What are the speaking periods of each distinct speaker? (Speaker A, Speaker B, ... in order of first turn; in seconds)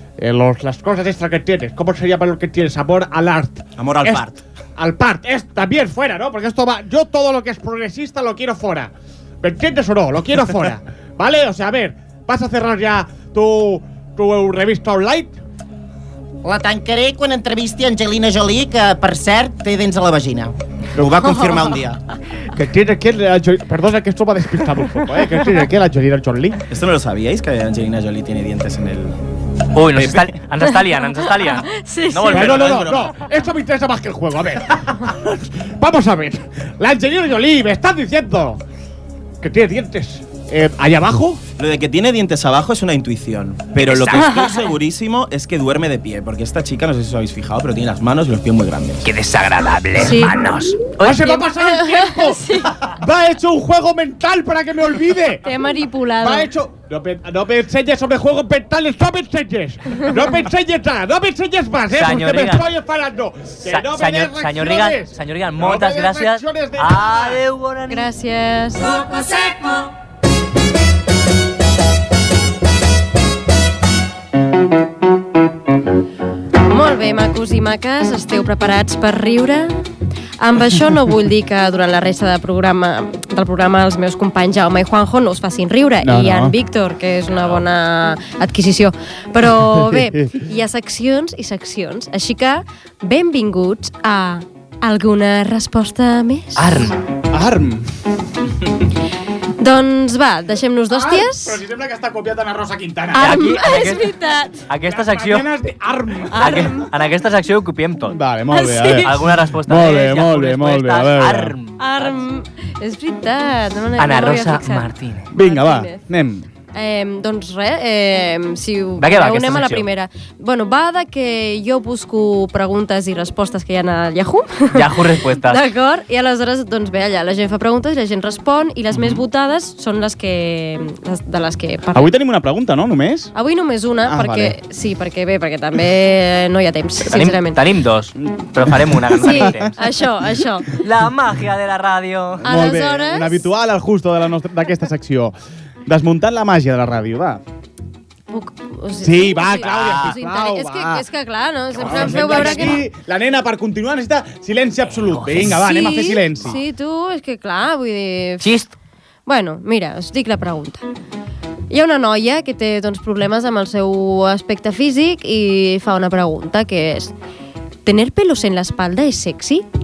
Speaker A: 0.2-4.2, 4.8-15.4, 21.0-21.5, 22.5-26.6, 32.3-38.6, 39.4-41.4, 51.0-55.5, 56.2-67.4, 86.0-86.5, 89.6-90.4, 97.3-97.9, 100.9-103.4, 104.8-106.8, 108.1-111.5, 115.3-116.5, 131.9-133.3, 134.1-134.6, 138.2-139.7, 142.4-145.3, 145.8-147.4, 149.0-151.1, 151.7-156.6
Speaker B: 3.8-4.4, 20.9-22.0, 26.7-29.1, 29.9-30.3, 32.1-33.1, 41.6-49.1, 149.6-150.2
Speaker C: 16.4-20.5
Speaker D: 29.7-32.9, 43.8-44.5, 49.0-51.1, 61.9-62.6, 63.6-68.1, 87.3-87.7, 96.5-97.0, 103.2-104.1, 104.7-105.5, 106.3-108.2, 109.0-112.2, 114.0-115.3, 119.0-119.9, 124.7-125.7, 137.0-139.7, 140.8-142.5, 154.8-155.6, 158.4-158.7
Speaker E: 31.7-32.5, 50.0-50.3, 51.0-52.8, 55.4-56.5, 67.9-69.5, 76.7-79.8, 80.4-96.9, 99.6-101.6, 103.1-104.6, 106.3-106.9, 108.5-109.2, 111.8-116.0, 116.7-132.1, 133.3-137.6, 139.2-140.7, 142.4-143.5, 148.3-152.9, 155.4-158.5, 159.2-160.8, 161.7-167.1, 167.8-169.6